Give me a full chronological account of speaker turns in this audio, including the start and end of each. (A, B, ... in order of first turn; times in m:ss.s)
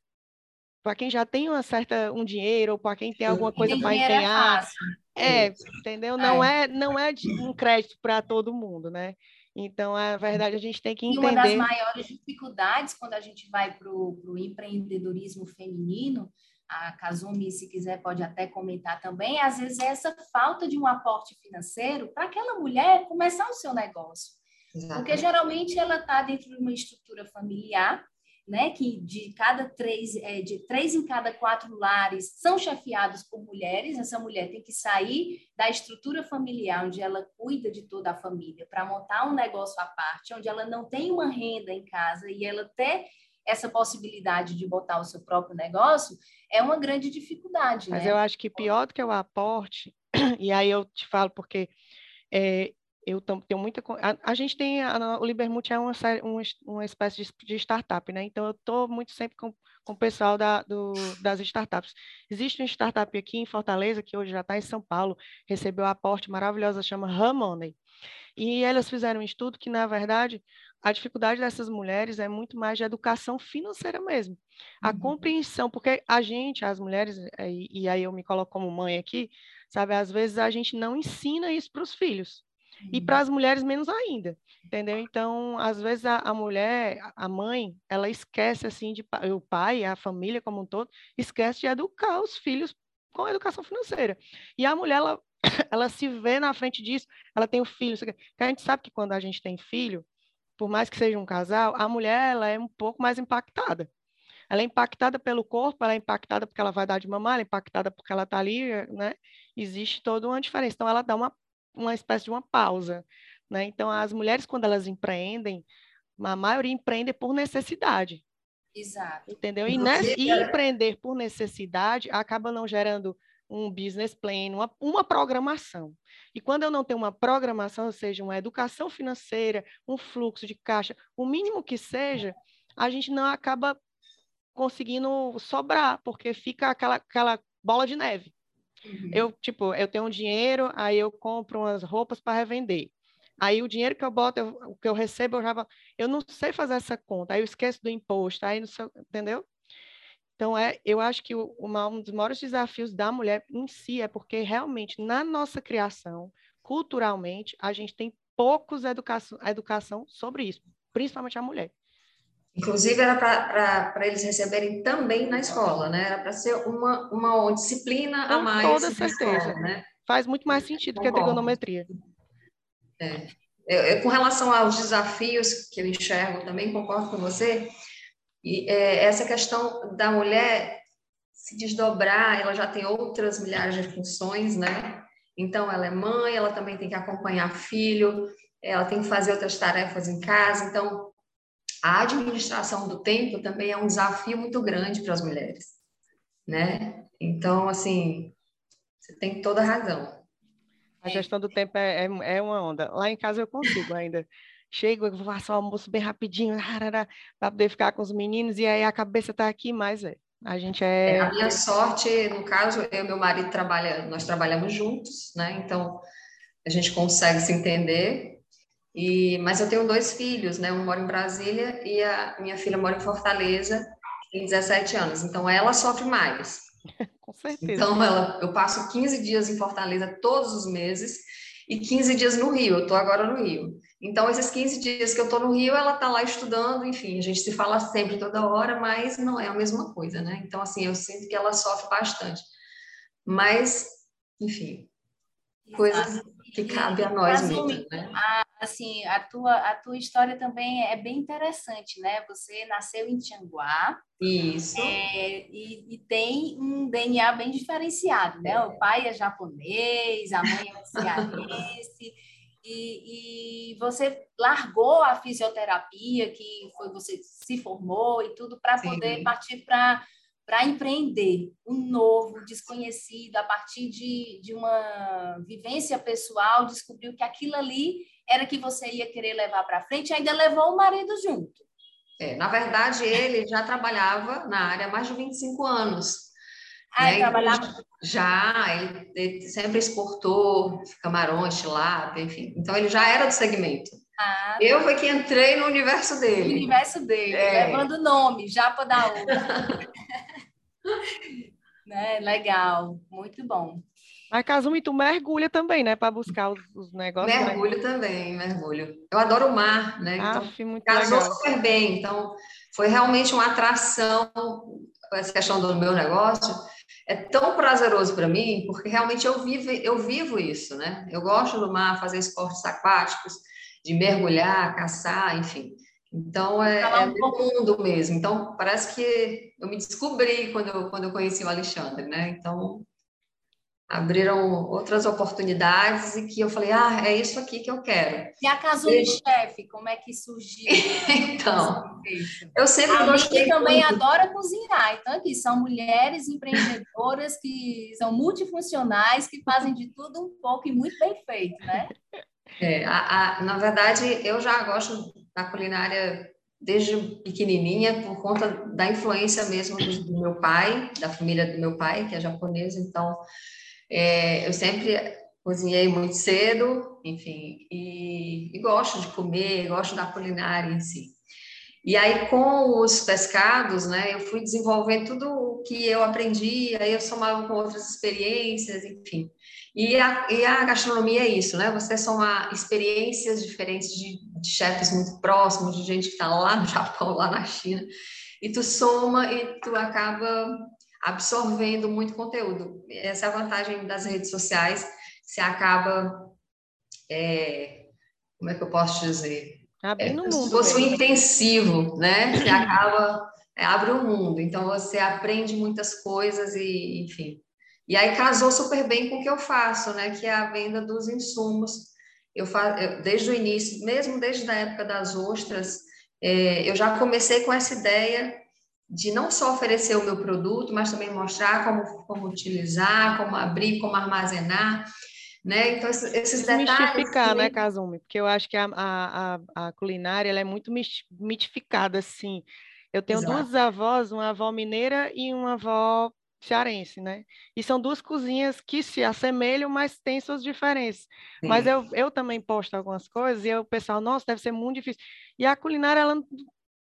0:00.8-0:11.7 A
0:03.6-0:04.8 B
0:06.2-0:06.5 B
0:11.1-0:24.4 B
0:24.7-0:25.3 C
0:24.9-0:48.2 B
0:47.9-0:51.7 A
0:52.3-1:07.8 A
1:08.4-1:40.0 A
1:14.8-1:15.1 B
1:22.8-1:23.2 B
1:40.6-1:43.9 A
1:44.5-1:55.6 A
1:56.2-1:58.2 A
1:58.8-1:59.3 B
1:59.3-2:13.8 A
1:59.7-2:00.5 C
2:14.6-2:18.3 A
2:18.8-2:19.2 B
2:19.1-2:29.5 A
2:30.4-2:41.7 A
2:42.6-2:49.9 C
2:48.3-2:51.9 A
2:50.5-2:51.6 C
2:53.0-2:57.7 C
2:58.4-3:00.8 C
3:01.4-3:11.1 C
3:11.8-3:15.8 C
3:16.5-3:18.4 C
3:19.0-3:20.2 C
3:21.0-3:31.6 A
3:31.1-3:36.0 C
3:36.6-3:38.4 C
3:38.9-3:46.7 C
3:47.2-3:48.0 A
3:47.6-4:02.4 C
4:03.3-4:04.9 C
4:05.7-4:14.0 B
4:05.8-4:08.2 C
4:14.2-4:15.0 C
4:14.8-4:41.6 B
4:18.4-4:18.8 C
4:21.0-4:21.5 C
4:28.8-4:29.3 C
4:42.2-4:46.3 C
4:47.0-4:47.8 B
4:47.0-4:54.0 C
4:54.2-4:54.9 B
4:54.6-4:56.7 C
4:56.4-4:59.7 B
4:57.3-4:57.9 C
4:59.3-4:59.8 C
5:01.8-5:03.9 B
5:04.3-5:07.6 A
5:07.2-5:32.9 C
5:10.2-5:11.4 A
5:26.6-5:27.4 B
5:33.9-5:39.2 C
5:38.4-5:51.9 B
5:40.7-5:41.9 C
5:42.5-5:44.0 C
5:52.6-6:03.2 C
6:03.9-6:11.2 C
6:11.8-6:27.9 C
6:28.4-6:36.4 C
6:37.1-7:04.9 C
6:39.8-6:41.0 A
6:42.4-6:42.7 A
7:05.4-7:07.6 C
7:06.4-7:26.4 A
7:13.1-7:13.5 C
7:21.4-7:21.7 C